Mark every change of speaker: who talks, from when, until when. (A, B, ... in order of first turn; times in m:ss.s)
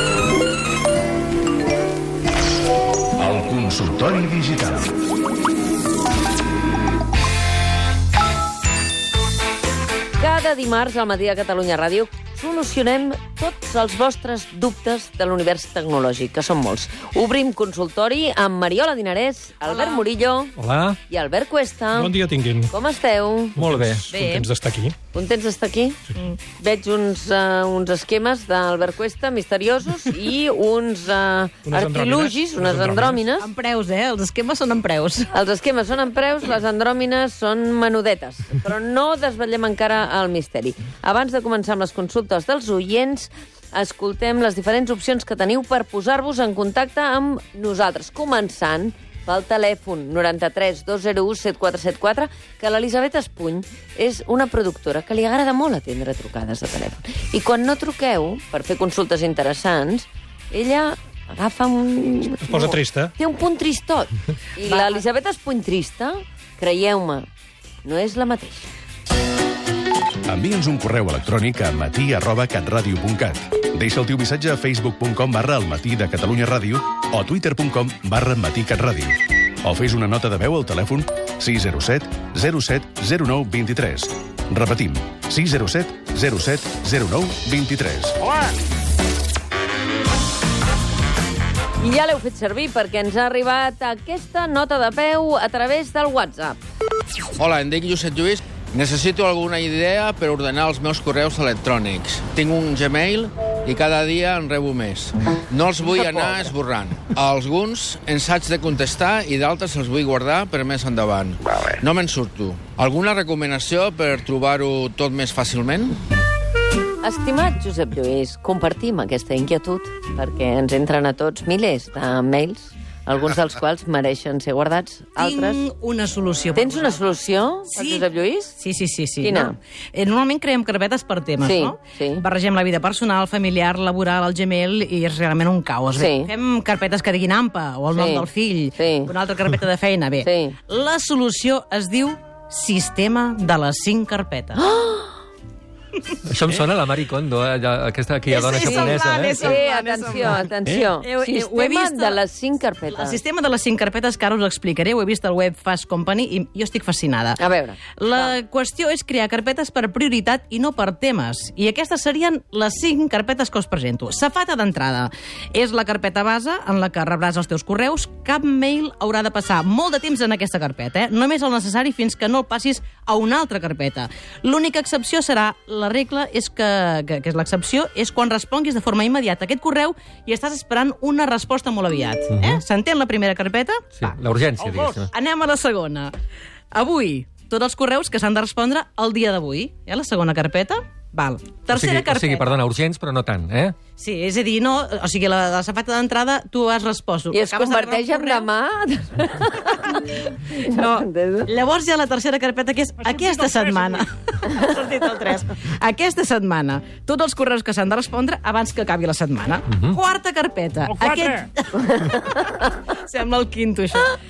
0:03.2-0:04.9 A
0:10.2-0:20.5 B
0:19.7-0:20.0 C
0:20.6-0:21.0 D
0:21.1-0:22.2 B
0:22.0-0:22.7 E
0:22.7-0:23.6 B
0:23.6-0:25.0 E
0:23.6-0:24.0 D
0:24.1-0:24.5 C
0:25.1-0:33.5 B
0:31.7-0:33.3 E
0:33.4-0:35.3 C
0:35.3-1:07.3 B
1:02.5-1:03.2 E
1:04.7-1:05.0 C
1:07.8-1:08.7 B
1:10.3-1:28.2 A
1:31.8-1:36.6 B
1:37.4-1:56.0 F
1:57.0-2:05.6 B
2:05.2-2:07.0 C
2:06.5-2:08.6 B
2:07.7-2:24.6 C
2:09.2-2:09.6 B
2:11.4-2:12.2 B
2:16.0-2:16.3 B
2:17.9-2:19.1 B
2:20.2-2:20.6 B
2:24.6-2:25.1 B
2:26.3-2:29.6 D
2:28.3-2:32.2 C
2:28.5-2:33.2 B
2:32.9-2:37.4 C
2:37.4-2:38.3 B
2:37.9-3:03.9 C
3:02.3-3:02.6 D
3:04.0-3:05.1 D
3:05.0-3:06.1 C
3:06.7-3:12.6 C
3:11.7-3:13.8 D
3:14.0-3:18.5 C
3:17.3-3:21.5 B
3:20.6-3:32.0 C
3:31.7-3:32.8 B
3:32.9-3:34.2 C